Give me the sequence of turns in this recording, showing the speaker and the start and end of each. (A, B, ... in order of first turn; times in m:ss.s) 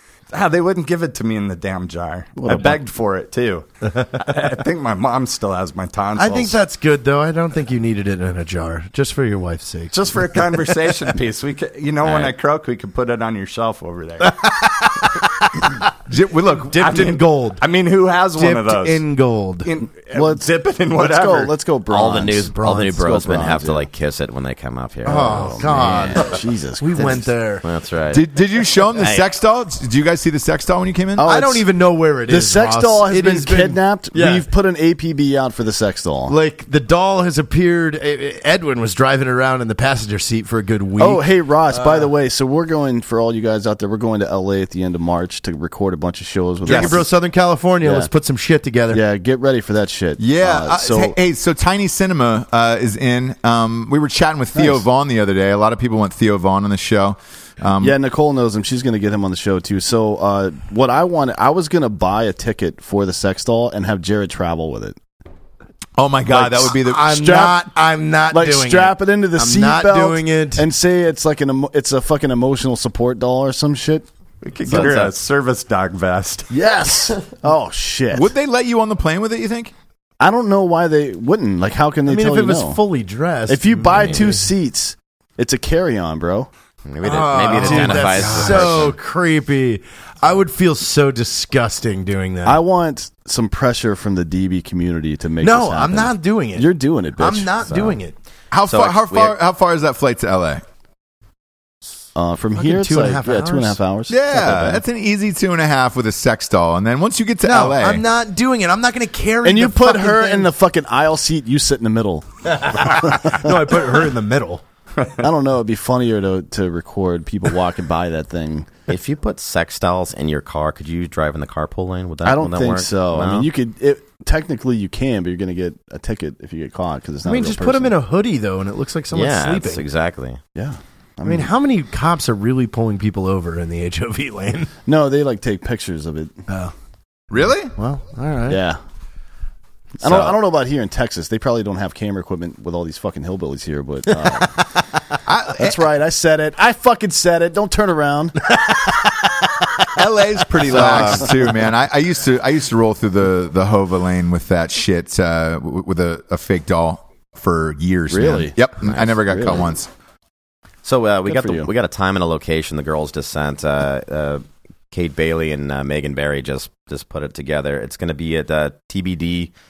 0:00.3-0:06.6 A
0:02.4-0:02.8 B
0:06.2-0:10.4 C
0:09.9-0:14.4 A
0:12.0-0:12.3 D
0:16.1-0:17.0 E
0:16.7-0:17.6 C
0:16.8-0:19.0 A
0:18.3-0:19.7 C
0:19.6-0:21.5 A
0:20.1-0:23.9 B
0:21.9-0:26.2 D
0:22.5-0:22.9 C
0:25.0-0:27.6 C
0:25.4-0:27.3 B
0:27.6-0:28.2 D
0:28.1-0:31.3 E
0:29.0-0:29.2 D
0:31.2-0:31.6 B
0:31.2-0:34.4 C
0:32.3-0:36.3 B
0:36.3-0:42.1 C
0:41.0-0:47.1 B
0:46.6-0:47.0 E
0:46.6-0:49.0 C
0:47.8-0:48.1 B
0:48.9-0:51.1 B
0:50.2-0:58.0 E
0:54.6-0:54.8 B
0:57.8-1:05.0 B
1:06.0-1:07.4 E
1:06.3-1:10.6 C
1:06.4-1:07.6 B
1:08.3-1:14.1 B
1:14.4-1:16.5 A
1:14.6-1:15.1 D
1:16.5-1:18.3 B
1:18.1-1:19.7 E
1:20.2-1:22.8 B
1:22.1-1:24.4 C
1:23.5-1:26.5 B
1:23.9-1:24.2 D
1:26.8-1:28.9 D
1:27.0-1:32.6 C
1:27.6-1:28.6 B
1:32.4-1:37.9 B
1:35.4-1:38.2 C
1:38.5-1:40.6 E
1:38.7-1:39.4 D
1:42.1-1:44.8 B
1:42.6-1:43.8 C
1:44.1-1:48.0 E
1:47.4-1:50.5 C
1:49.4-1:53.9 B
1:52.5-1:54.6 C
1:55.2-1:58.7 B
1:58.9-2:03.5 D
2:02.2-2:07.9 B
2:07.2-2:09.8 C
2:09.1-2:10.4 D
2:10.5-2:11.5 B
2:11.2-2:14.7 C
2:14.8-2:16.4 B
2:16.5-2:16.7 C
2:17.3-2:17.7 E
2:17.7-2:18.6 C
2:18.5-2:18.8 B
2:20.0-2:24.6 B
2:20.0-2:20.4 D
2:25.2-2:25.8 E
2:25.6-2:28.6 B
2:28.7-2:29.1 C
2:29.9-2:39.9 E
2:30.6-2:31.4 B
2:30.7-2:31.2 C
2:38.1-2:39.6 B
2:40.8-2:49.5 D
2:41.2-2:41.7 B